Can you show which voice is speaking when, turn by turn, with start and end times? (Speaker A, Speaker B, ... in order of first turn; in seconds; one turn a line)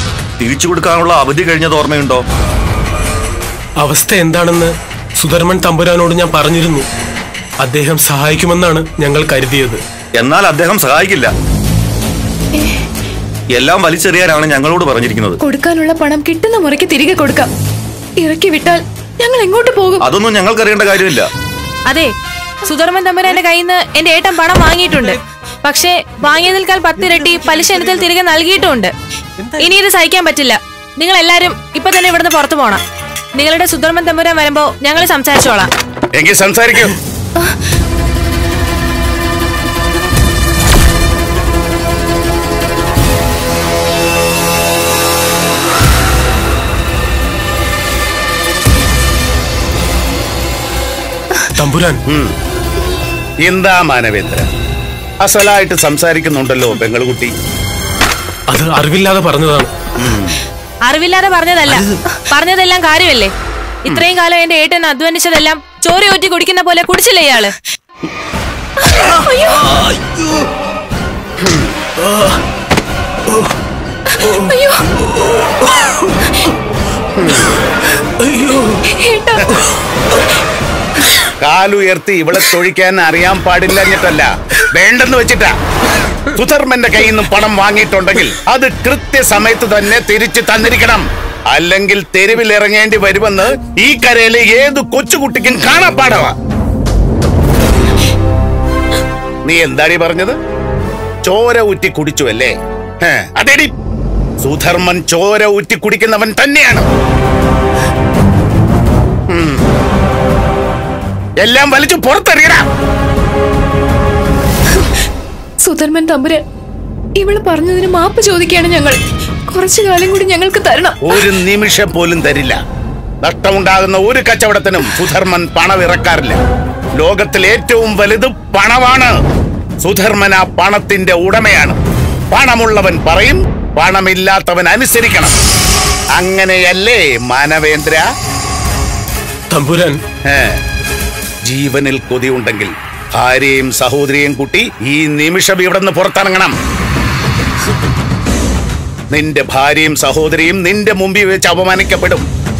Speaker A: 0.4-2.2
Speaker B: 3.8-6.8
Speaker B: 7.6-9.8
Speaker A: 10.2-11.3
Speaker A: 13.5-15.4
Speaker C: 15.4-17.5
Speaker C: 18.2-20.0
Speaker A: 20.0-21.3
Speaker D: 22.6-28.9
Speaker B: 24.9-25.1
Speaker B: 27.0-28.1
Speaker B: 29.4-29.7
Speaker D: 29.6-32.8
Speaker D: 33.4-35.7
Speaker E: 36.2-36.8
Speaker B: 51.6-52.0
Speaker E: 53.5-54.4
Speaker E: 55.3-57.3
Speaker B: 58.5-59.7
Speaker D: 60.9-63.3
Speaker D: 63.8-67.5
Speaker C: 68.9-69.7
Speaker C: 74.3-74.8
Speaker B: 78.3-78.6
Speaker C: 78.9-79.3
Speaker E: 81.4-84.2
Speaker E: 84.8-85.5
Speaker E: 86.4-91.0
Speaker E: 91.5-96.3
Speaker E: 99.5-100.3
Speaker E: 101.3-102.5
Speaker E: 103.2-103.7
Speaker E: 104.5-106.8
Speaker E: 111.4-112.6
Speaker C: 115.6-116.4
Speaker C: 117.2-119.0
Speaker C: 119.5-121.3
Speaker E: 121.3-122.5
Speaker E: 123.2-126.4
Speaker E: 127.0-129.1
Speaker E: 129.8-131.8
Speaker E: 132.3-135.3
Speaker E: 136.2-138.0
Speaker B: 139.5-140.0
Speaker E: 141.5-142.7
Speaker E: 143.2-146.5
Speaker E: 149.1-152.2